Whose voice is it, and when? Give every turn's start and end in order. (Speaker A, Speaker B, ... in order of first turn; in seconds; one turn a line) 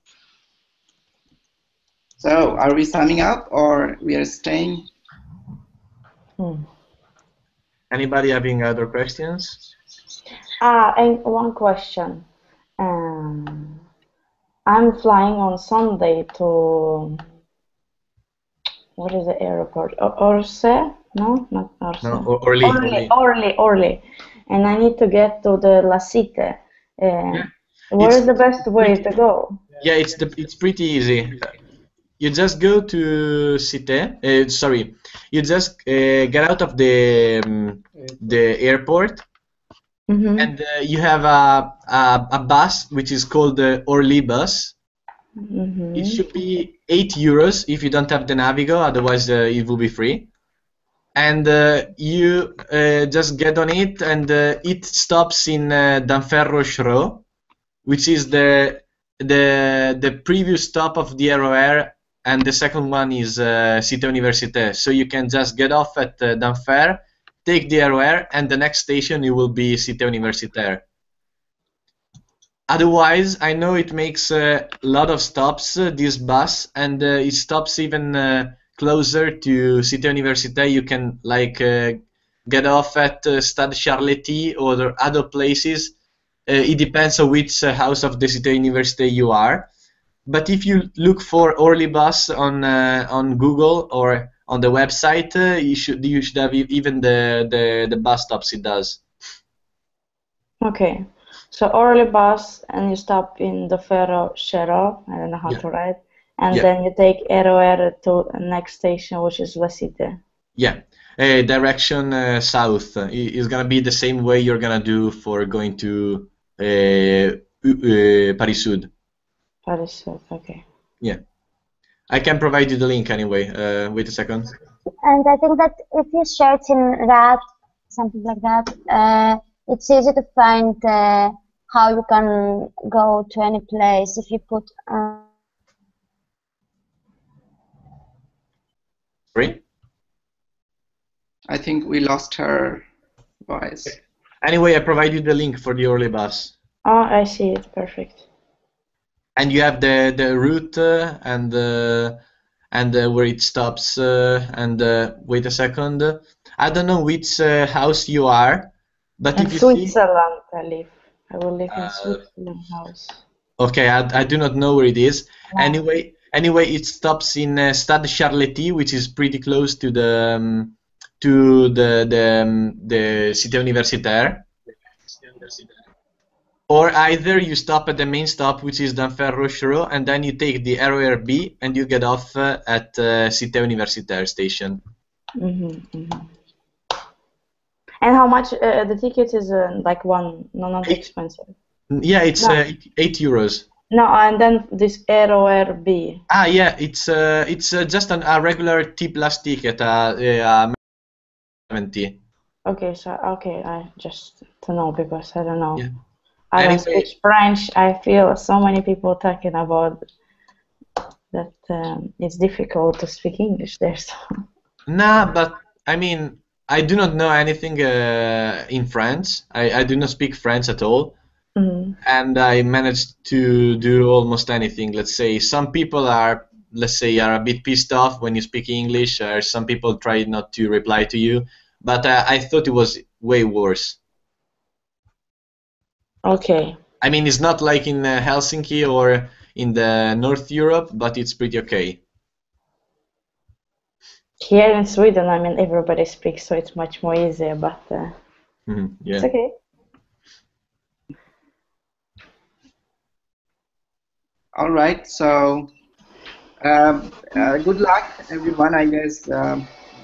Speaker A: 2.2-4.9
Speaker B: 6.4-6.7
Speaker C: 7.9-9.6
Speaker B: 10.6-12.3
Speaker B: 12.8-13.8
Speaker B: 14.7-17.2
Speaker B: 19.0-29.6
Speaker C: 22.0-23.1
Speaker C: 27.3-29.0
Speaker C: 29.8-31.5
Speaker C: 32.2-39.2
Speaker B: 40.1-40.5
Speaker C: 40.4-44.8
Speaker B: 45.4-46.2
Speaker C: 45.9-50.3
Speaker C: 51.2-57.2
Speaker C: 57.9-70.8
Speaker C: 72.7-86.0
Speaker C: 86.5-89.7
Speaker C: 90.3-99.0
Speaker B: 100.6-110.2
Speaker C: 110.6-118.9
Speaker B: 119.7-120.6
Speaker C: 122.1-124.5
Speaker D: 125.0-135.3
Speaker C: 139.3-139.6
Speaker A: 141.5-142.8
Speaker A: 143.4-144.0
Speaker C: 143.9-146.5
Speaker B: 146.8-148.2
Speaker C: 149.4-152.2
Speaker C: 152.7-160.0
Speaker B: 159.3-163.2
Speaker C: 161.7-162.2
Speaker C: 163.6-174.5
Speaker C: 176.7-184.8
Speaker B: 185.4-186.3
Speaker B: 188.0-191.5
Speaker C: 191.9-193.7
Speaker B: 193.9-196.2
Speaker C: 196.3-200.8
Speaker C: 201.7-202.2
Speaker B: 202.7-205.9
Speaker B: 206.5-210.0
Speaker C: 206.6-207.1
Speaker B: 211.3-214.2
Speaker C: 214.9-221.2
Speaker B: 221.6-222.0
Speaker C: 222.0-234.0
Speaker B: 236.2-236.8
Speaker C: 237.0-242.0
Speaker B: 244.4-248.2
Speaker C: 248.7-249.3
Speaker B: 249.2-249.5
Speaker A: 254.6-255.7
Speaker A: 256.6-259.7